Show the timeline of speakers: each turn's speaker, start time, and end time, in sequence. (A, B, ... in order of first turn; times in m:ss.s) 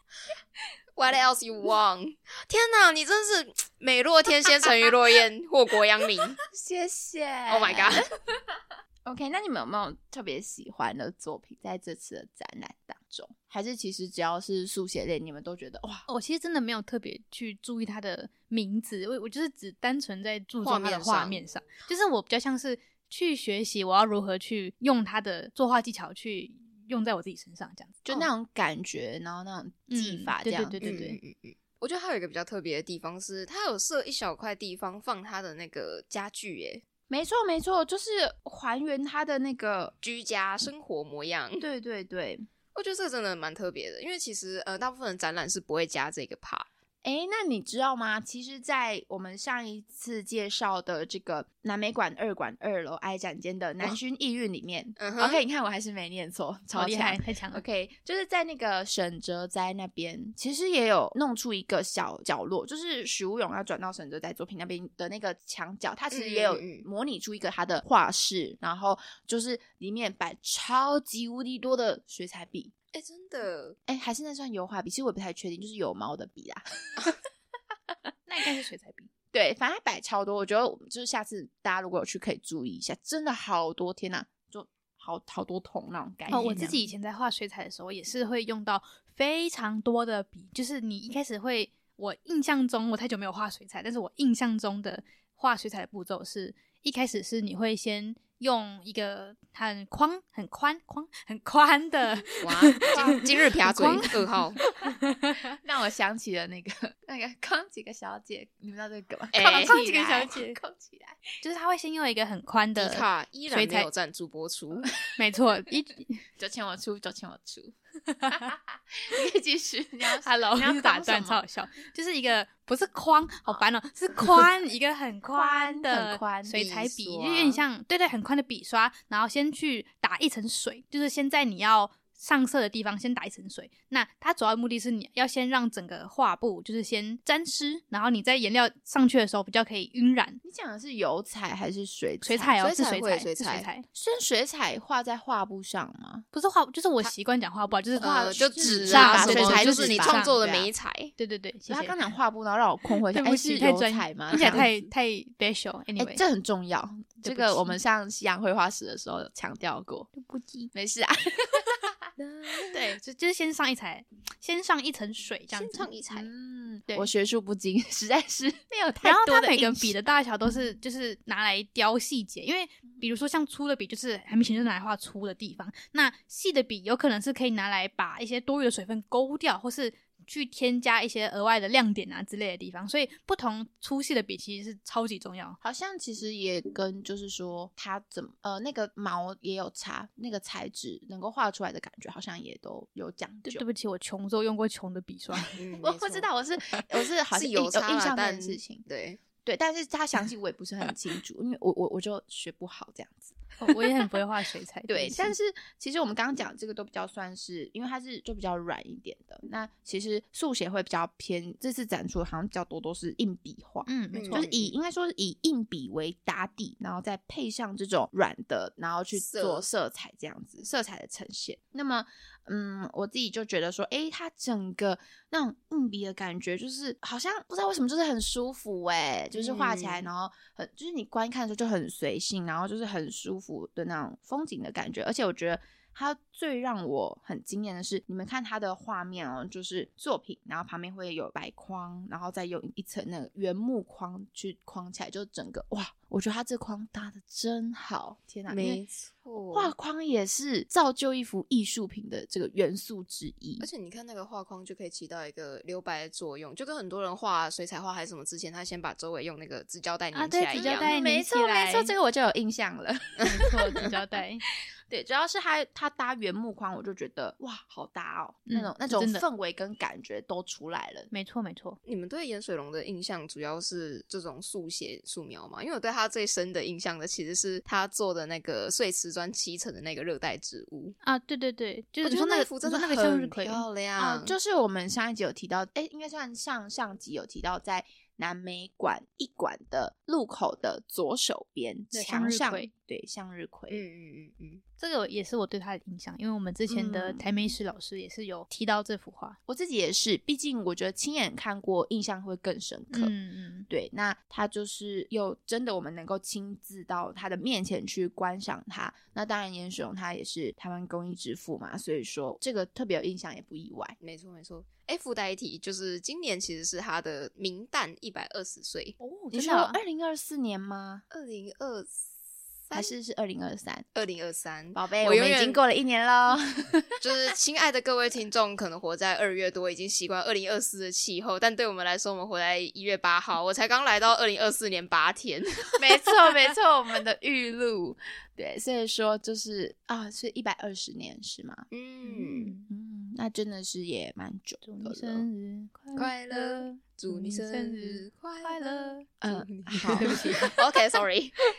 0:01.0-0:06.4 A
0:06.5-0:08.4 B
0:07.5-0:08.0 A
0:09.0-0:16.0 B
0:16.1-0:28.3 C
0:20.6-0:21.4 A
0:28.0-0:31.0 B
0:29.9-0:31.2 C
0:30.8-0:36.8 A
0:37.1-0:39.9 B
0:40.0-0:41.6 A
0:41.6-0:42.4 B
0:42.7-0:46.7 A
0:47.0-1:12.7 B
0:55.0-0:55.4 A
0:56.7-0:57.6 C
1:06.1-1:06.8 A
1:12.9-1:13.8 A
1:13.9-1:17.2 B
1:18.3-1:19.1 C
1:19.3-1:26.8 B
1:26.3-1:44.9 C
1:42.4-1:44.6 A
1:42.8-1:43.3 B
1:45.6-1:51.2 B
1:49.3-1:49.8 A
1:49.4-1:50.6 C
1:51.4-1:53.9 C
1:52.8-1:54.9 A
1:55.2-1:56.2 C
1:56.4-1:57.7 B
1:58.3-2:01.4 B
2:00.2-2:20.4 C
2:05.3-2:06.5 B
2:06.5-2:07.6 A
2:20.4-2:22.6 B
2:22.2-2:23.8 C
2:22.6-2:23.7 A
2:23.9-2:26.2 B
2:26.3-2:30.5 C
2:27.9-2:30.7 B
2:28.0-2:31.1 A
2:31.2-2:32.1 C
2:31.7-2:34.9 B
2:32.9-2:36.2 C
2:34.3-2:34.6 A
2:36.0-2:40.1 B
2:37.2-2:37.8 C
2:40.2-2:40.7 C
2:40.7-2:42.1 B
2:42.2-2:42.8 A
2:42.7-2:45.9 C
2:45.5-2:46.3 A
2:46.1-2:50.0 B
2:49.0-3:05.6 C
3:05.6-3:13.6 B
3:13.4-3:15.6 C
3:15.6-3:19.2 A
3:15.8-3:18.8 B
3:19.4-3:23.4 B
3:23.6-3:25.3 C
3:24.9-4:08.8 B
3:33.8-3:34.5 C
3:34.1-3:34.7 A
3:39.1-3:39.6 A
3:49.3-3:50.0 A
4:08.5-4:09.7 A
4:09.5-4:13.7 B
4:13.6-4:20.9 A
4:20.1-4:21.9 C
4:20.6-4:23.8 B
4:23.2-4:24.4 C
4:24.9-4:31.1 B
4:28.5-4:29.2 C
4:31.1-4:31.8 C
4:31.8-4:40.9 A
4:41.0-4:43.6 C
4:42.0-4:44.3 A
4:44.0-4:53.8 B
4:51.9-4:52.7 C
4:53.7-4:54.6 A
4:54.8-4:59.4 C
4:56.7-4:57.6 B
4:59.5-5:03.1 B
5:02.9-5:03.7 C
5:03.7-5:14.0 B
5:14.0-5:19.0 A
5:19.0-5:19.8 C
5:19.3-5:21.0 B
5:21.1-5:22.0 A
5:22.7-5:23.9 B
5:23.9-5:25.6 A
5:24.7-5:27.0 B
5:27.0-5:35.9 A
5:35.8-5:41.6 B
5:41.7-5:42.5 A
5:42.0-5:42.7 C
5:42.7-5:45.2 B
5:44.6-5:49.1 C
5:46.0-5:51.4 A
5:49.2-5:50.5 B
5:49.9-5:50.6 C